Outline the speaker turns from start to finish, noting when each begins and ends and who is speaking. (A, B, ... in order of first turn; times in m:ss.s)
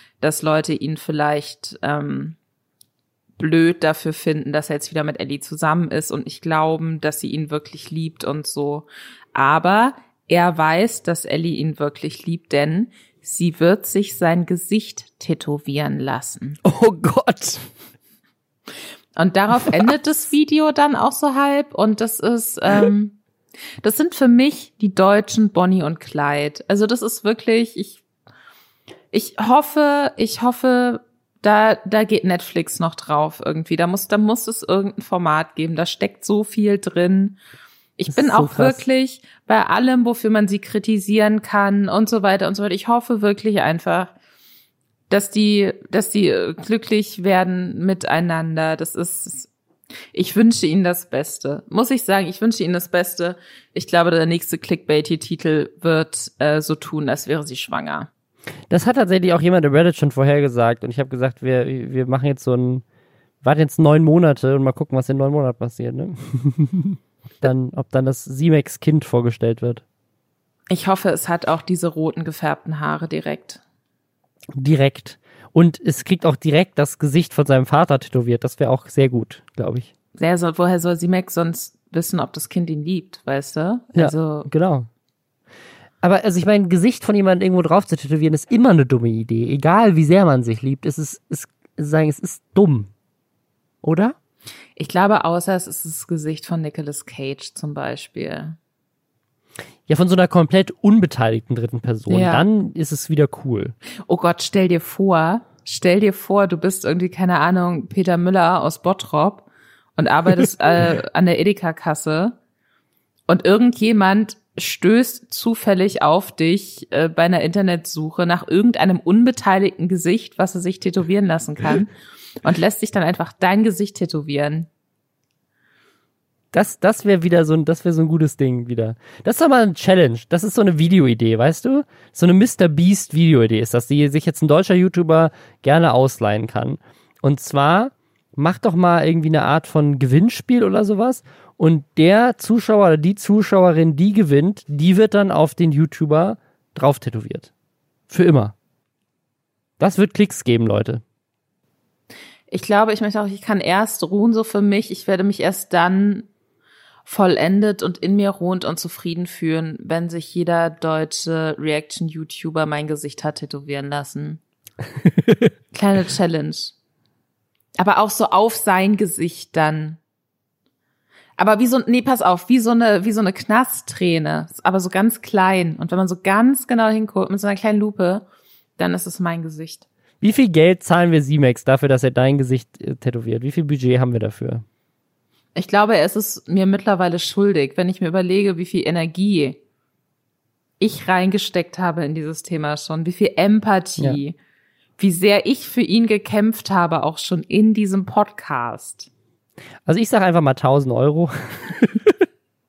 0:00.2-0:02.4 A
0:03.4-0:16.6 A
0:16.6-0:17.6 B
0:19.2-0:23.2 A
0:23.8-0:28.0 A
0:29.1-0:37.4 A
0:38.0-0:44.1 A
0:38.1-0:38.8 B
0:45.1-0:49.5 A
0:50.1-0:58.1 A
0:58.7-1:02.8 B
1:03.4-1:09.8 B
1:10.7-1:13.6 A
1:14.6-1:19.9 B
1:20.2-1:24.5 A
1:23.9-1:24.9 B
1:26.0-1:32.9 B
1:33.8-1:34.2 B
1:34.8-1:38.6 A
1:39.9-1:43.7 B
1:42.1-1:42.4 A
1:44.1-1:52.4 A
1:53.3-2:01.9 A
2:02.4-2:04.7 A
2:06.5-2:27.5 B
2:28.1-2:28.5 B
2:29.8-2:31.0 B
2:32.5-2:36.3 A
2:37.0-2:44.4 A
2:45.0-2:45.5 B
2:45.7-2:46.7 A
2:47.8-2:50.0 A
2:51.4-2:58.2 A
2:58.8-2:59.8 A
3:00.2-3:04.6 B
3:05.6-3:09.6 A
3:10.8-3:14.4 A
3:15.0-3:19.1 A
3:19.8-3:22.2 B